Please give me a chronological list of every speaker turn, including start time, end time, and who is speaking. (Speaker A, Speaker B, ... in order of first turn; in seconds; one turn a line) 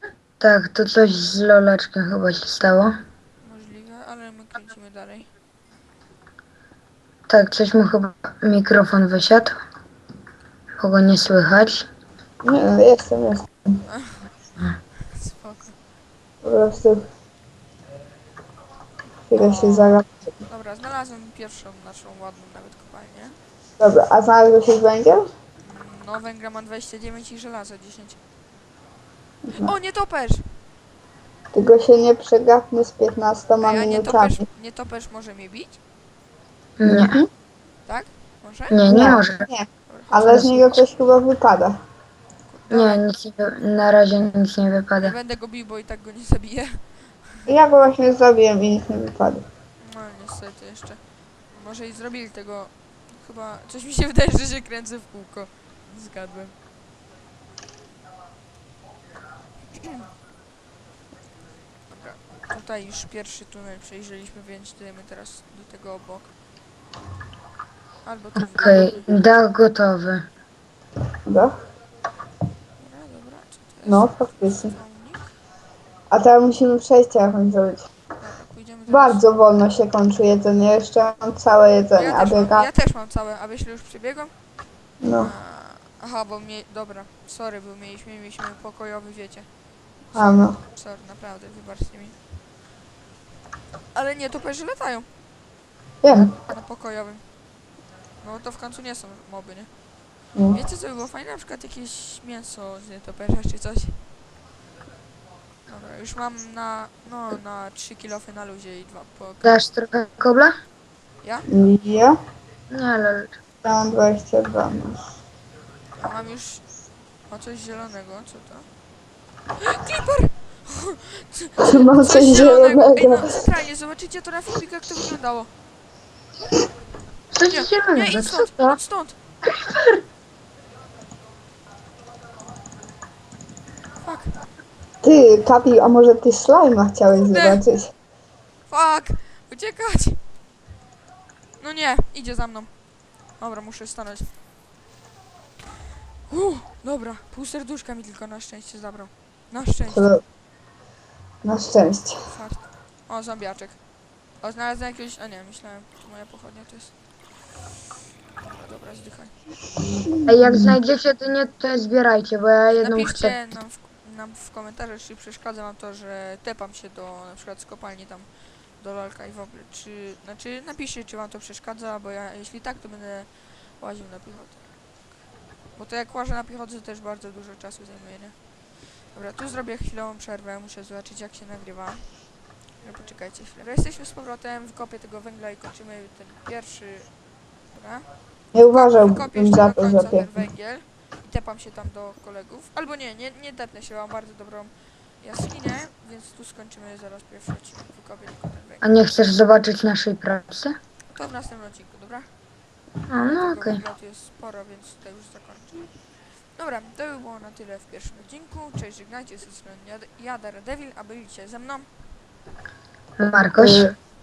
Speaker A: 0.4-2.9
Speaker B: 3.4-5.3
Speaker A: 7.3-9.6
Speaker A: 10.8-11.9
Speaker C: 12.4-13.5
Speaker B: 13.9-14.3
Speaker B: 15.1-15.8
Speaker C: 16.4-17.1
Speaker C: 19.3-20.3
Speaker B: 19.3-23.4
Speaker C: 23.8-25.3
Speaker B: 25.6-28.2
Speaker B: 29.6-30.5
Speaker C: 31.5-34.4
Speaker B: 33.6-35.8
Speaker A: 36.8-37.2
Speaker C: 36.8-37.2
Speaker B: 37.9-38.8
Speaker A: 38.7-39.5
Speaker C: 38.9-41.8
Speaker B: 39.9-40.8
Speaker B: 42.5-43.0
Speaker A: 42.7-45.1
Speaker B: 45.0-47.5
Speaker C: 47.5-49.5
Speaker B: 49.8-51.0
Speaker B: 51.5-56.6
Speaker B: 61.9-66.3
Speaker B: 68.0-69.1
Speaker A: 68.4-70.3
Speaker C: 71.3-71.5
Speaker B: 72.8-75.4
Speaker C: 73.9-74.7
Speaker C: 76.1-77.9
Speaker B: 78.2-79.2
Speaker C: 78.9-82.7
Speaker B: 82.0-84.3
Speaker C: 85.0-85.3
Speaker B: 85.2-89.5
Speaker C: 90.1-90.6
Speaker B: 90.1-92.2
Speaker B: 93.9-95.1
Speaker C: 96.0-96.3
Speaker B: 96.2-97.2
Speaker B: 98.2-99.7
Speaker C: 100.3-100.6
Speaker B: 100.5-104.0
Speaker B: 105.7-109.6
Speaker A: 109.4-110.5
Speaker B: 111.2-111.5
Speaker C: 111.5-112.2
Speaker A: 112.7-113.3
Speaker C: 113.6-115.0
Speaker B: 115.9-116.7
Speaker B: 117.3-118.7
Speaker B: 119.6-125.5
Speaker C: 121.6-123.5
Speaker A: 127.3-128.8
Speaker B: 127.5-129.2
Speaker A: 129.5-130.0
Speaker B: 134.0-134.4
Speaker C: 135.0-137.9
Speaker B: 137.1-137.6
Speaker B: 138.7-140.2
Speaker B: 141.6-142.7
Speaker B: 143.4-144.3
Speaker B: 146.3-150.1
Speaker C: 149.9-150.2
Speaker C: 151.4-152.2
Speaker B: 152.3-153.8
Speaker B: 154.4-156.9
Speaker B: 158.4-159.3
Speaker C: 160.1-160.7
Speaker A: 160.3-163.4
Speaker B: 162.7-174.7
Speaker B: 175.8-178.4
Speaker B: 179.0-182.2
Speaker B: 182.8-187.1
Speaker B: 187.7-188.1
Speaker C: 188.5-190.4
Speaker B: 188.7-198.8
Speaker A: 198.8-200.8
Speaker B: 201.1-202.3
Speaker A: 203.1-203.8
Speaker B: 203.2-205.9
Speaker B: 206.6-211.9
Speaker A: 213.2-213.9
Speaker C: 213.6-213.9